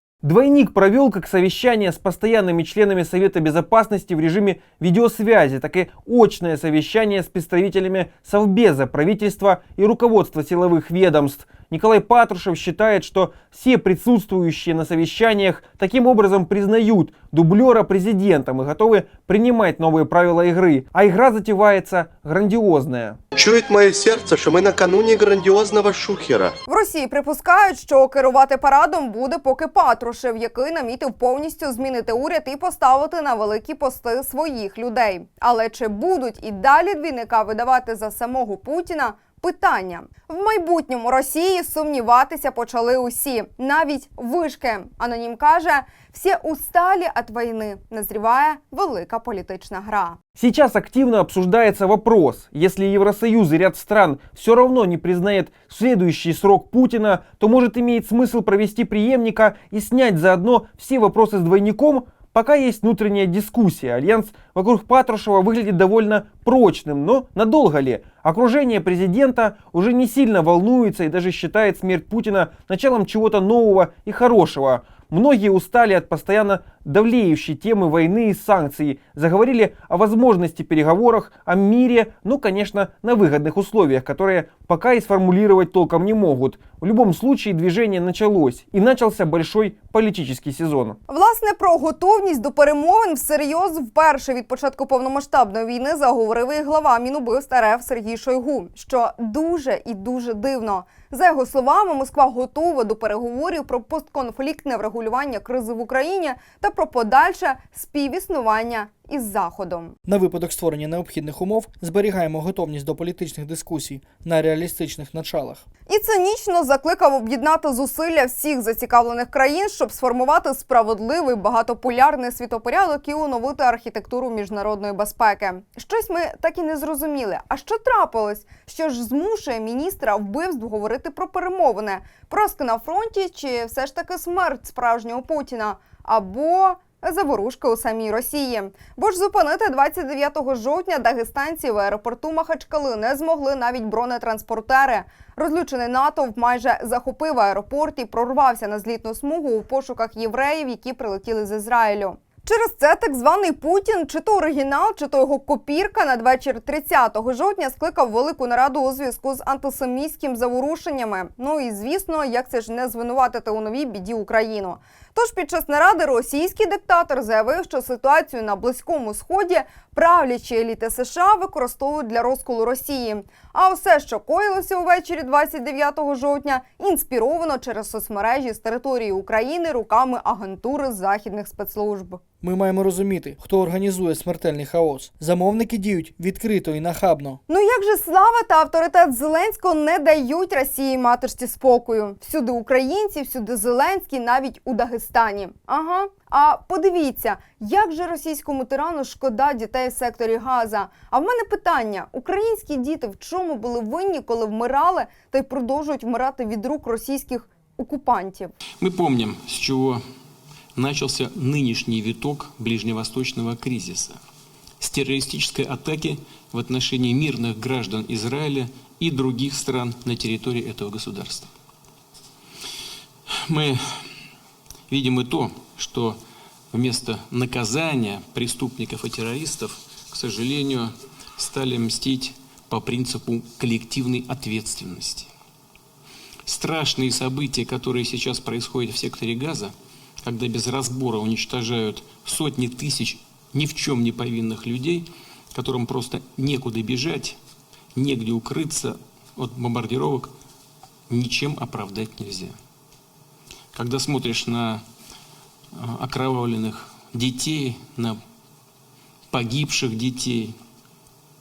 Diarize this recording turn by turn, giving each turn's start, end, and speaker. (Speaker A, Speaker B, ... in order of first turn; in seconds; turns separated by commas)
Speaker A: 0.2-23.2, Speaker B: 23.4-26.5, Speaker C: 26.7-50.2, Speaker A: 50.4-91.0, Speaker C: 91.1-109.9, Speaker D: 110.0-115.6, Speaker C: 115.9-182.2, Speaker D: 182.4-187.4, Speaker C: 187.5-208.5, Speaker E: 208.8-210.0, Speaker E: 210.7-214.2, Speaker E: 214.8-221.5, Speaker E: 223.4-224.2, Speaker E: 224.9-226.2, Speaker E: 226.7-235.3, Speaker E: 236.4-247.4, Speaker E: 247.9-250.3, Speaker E: 251.1-252.5, Speaker E: 253.7-254.8, Speaker E: 255.7-258.2, Speaker E: 259.3-260.5